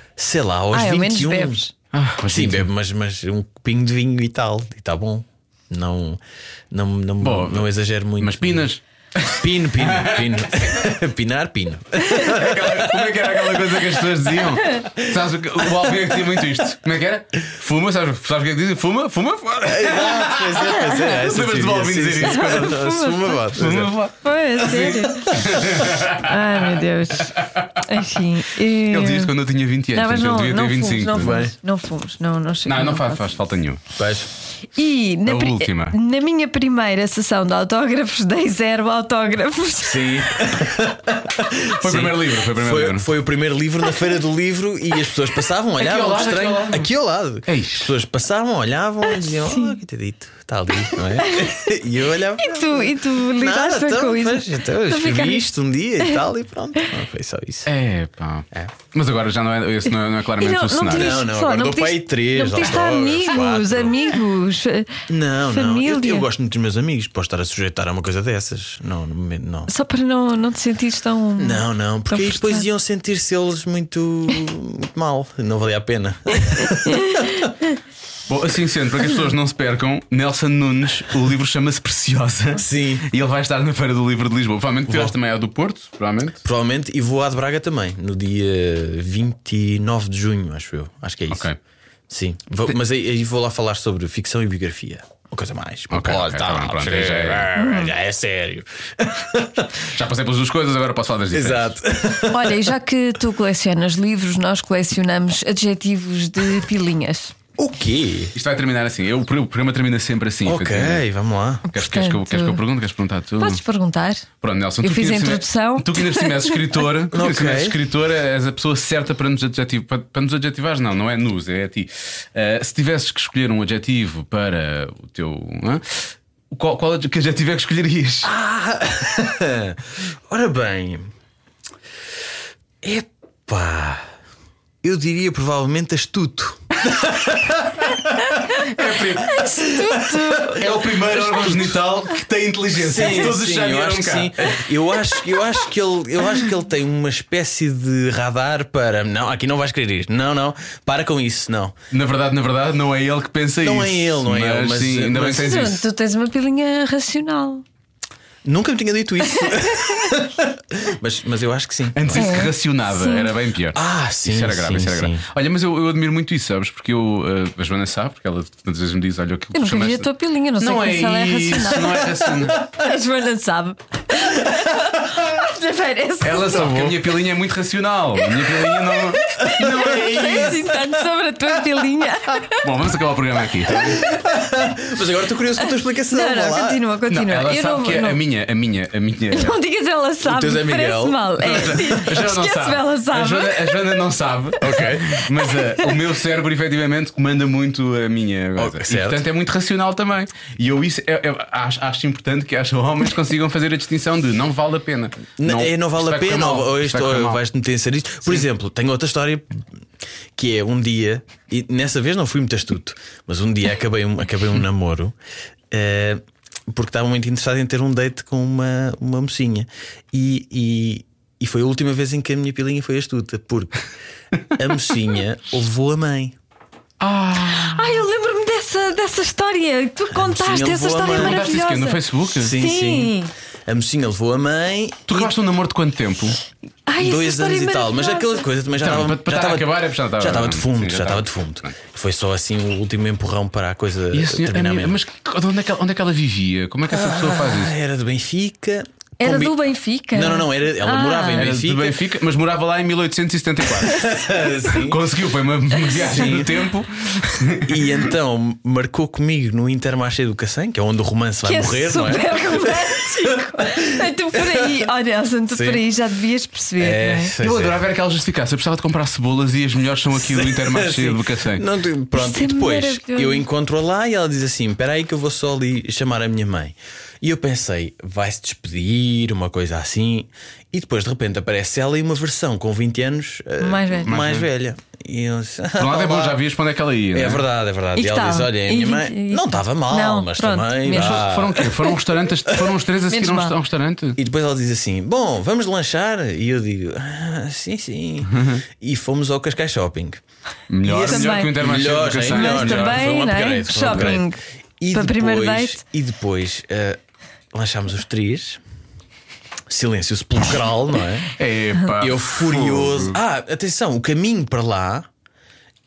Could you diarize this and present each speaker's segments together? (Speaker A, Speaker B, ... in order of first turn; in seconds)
Speaker A: 0.2-1.6, 2.3-8.7, 9.3-14.1, 14.7-16.4, 19.6-23.9, 25.3-25.8, 31.2-31.5, 34.0-34.3, 39.8-57.7, 60.9-64.2, 65.1-69.7, 71.4-77.5, 82.5-83.0, 84.9-85.1, 86.4-91.5, 92.1-99.8, 101.3-102.7, 107.6-108.3, 110.5-111.7, 117.1-117.8, 128.2-131.1, 132.8-134.1, 134.8-141.8, 142.7-151.7, 153.6-155.5, 158.4-162.4, 163.7-165.2, 174.4-174.9, 176.4-177.2, 179.4-180.9, 183.8-186.8, 190.2-191.2, 194.6-195.2, 198.6-199.2, 205.4-209.8, 210.3-215.1, 215.7-223.8, 224.5-226.4, 230.1-231.4, 232.3-233.1, 233.7-235.3, 237.0-245.0, 246.9-249.5, 250.1-252.0, 253.8-255.0, 256.0-256.5, 257.6-264.8, 265.5-265.8, 266.8-267.8, 270.1-286.4, 287.1-292.8, 294.2-300.2, 300.8-307.0, 307.5-308.6, 309.7-311.3, 311.9-315.1
Speaker B: 0.7-1.7, 22.2-23.4, 24.2-29.3, 29.9-33.2, 34.7-40.4, 49.2-49.8, 51.2-51.7, 52.4-55.5, 60.4-66.2, 69.7-72.7, 76.9-77.2, 97.6-97.9, 102.3-107.3, 111.7-112.6, 113.4-114.3, 114.8-116.7, 139.2-140.7, 155.2-157.6, 159.4-160.1, 162.1-163.3, 169.5-176.5, 178.4-182.7, 185.6-188.2, 189.3-193.8, 195.1-195.8, 227.4-233.3, 236.9-238.4, 249.2-251.5, 261.4-267.3, 272.1-273.4, 283.6-284.1, 287.9-291.3, 293.1-293.5, 301.0-301.5, 302.2-304.4, 304.9-305.8
Speaker C: 1.9-2.7, 7.2-10.9, 12.1-22.9, 23.5-26.4, 27.2-27.8, 28.9-31.4, 32.6-33.8, 35.2-36.0, 41.8-43.1, 45.8-46.9, 47.5-47.9, 57.6-61.2, 78.3-86.4, 91.3-91.6, 95.9-97.5, 99.8-101.8, 108.3-111.0, 111.7-113.6, 114.4-128.3, 138.7-139.5, 140.4-144.7, 151.9-155.8, 161.9-170.1, 170.6-172.6, 176.2-180.7, 182.6-184.0, 187.1-189.6, 191.4-207.4, 227.0-228.0, 231.1-232.6, 235.1-236.4, 238.8-241.7, 244.1-247.7, 251.3-258.0, 267.4-271.6, 284.1-284.5, 285.8-287.4, 290.9-294.2, 298.2-298.6, 300.7-303.1, 303.8-304.2, 311.4-313.2